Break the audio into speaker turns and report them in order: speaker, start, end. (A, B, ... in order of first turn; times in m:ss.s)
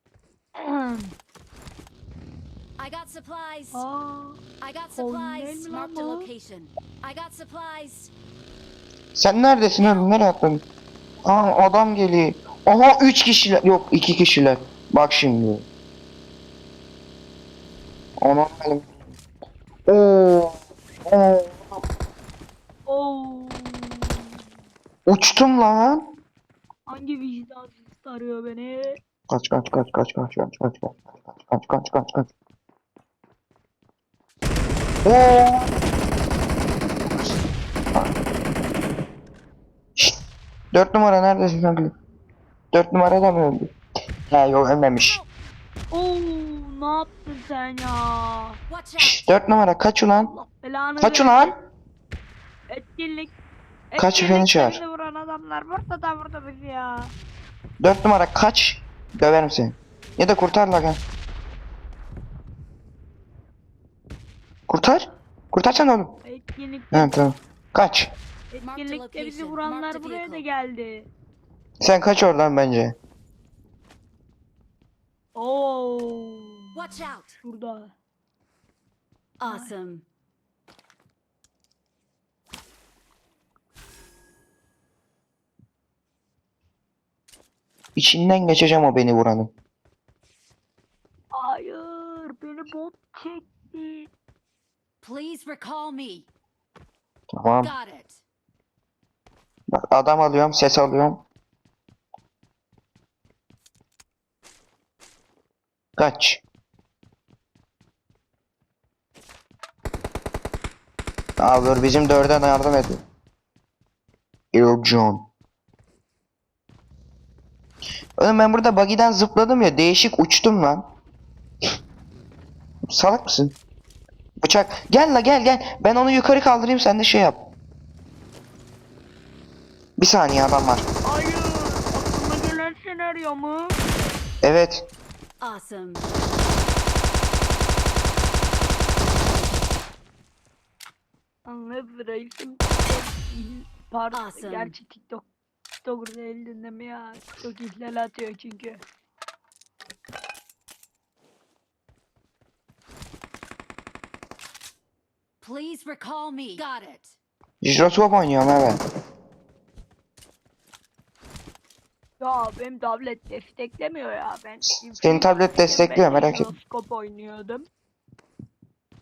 0:00.5-0:01.1 A
0:02.8-0:03.8 B
0:03.7-0:04.4 A
0:04.6-0:08.1 B
0:04.9-0:06.3 A
0:09.1-0:10.6 C
0:09.8-0:10.1 B
0:11.2-0:15.7 C
0:18.2-0:18.9 C
0:19.9-0:21.8 C
0:22.8-0:24.4 A
0:25.0-0:26.0 C
0:26.9-0:29.0 A
0:29.3-0:32.3 C
0:35.0-0:35.8 C
0:40.7-0:41.9 C
0:42.7-0:43.7 C
0:44.3-0:45.2 C
0:45.0-0:45.3 B
0:45.9-0:48.5 A
0:48.7-0:49.3 B
0:49.0-0:50.3 C
0:50.3-0:51.3 A
0:51.0-0:51.5 C
0:52.7-0:53.3 A
0:53.9-0:57.1 A
0:54.0-0:54.8 C
0:57.8-1:01.0 C
1:04.7-1:06.2 C
1:06.2-1:07.2 A
1:06.9-1:08.1 C
1:08.5-1:11.1 A
1:08.6-1:10.4 B
1:11.8-1:13.0 C
1:15.3-1:16.7 A
1:16.7-1:17.4 B
1:17.4-1:17.9 A
1:19.4-1:20.0 B
1:19.4-1:19.7 A
1:28.0-1:29.5 C
1:31.3-1:34.1 A
1:35.0-1:36.2 B
1:37.3-1:37.7 C
1:37.6-1:38.2 B
1:39.7-1:41.2 C
1:46.0-1:46.4 C
1:51.4-1:53.0 C
1:54.5-1:55.3 C
1:58.2-2:00.8 C
2:02.9-2:03.6 C
2:04.4-2:07.5 C
2:10.0-2:10.8 C
2:11.0-2:13.8 A
2:14.4-2:14.9 C
2:15.4-2:16.1 B
2:21.4-2:25.3 A
2:24.1-2:24.7 B
2:25.8-2:28.8 A
2:35.4-2:37.2 B
2:37.6-2:38.8 C
2:42.2-2:47.7 A
2:45.0-2:46.5 C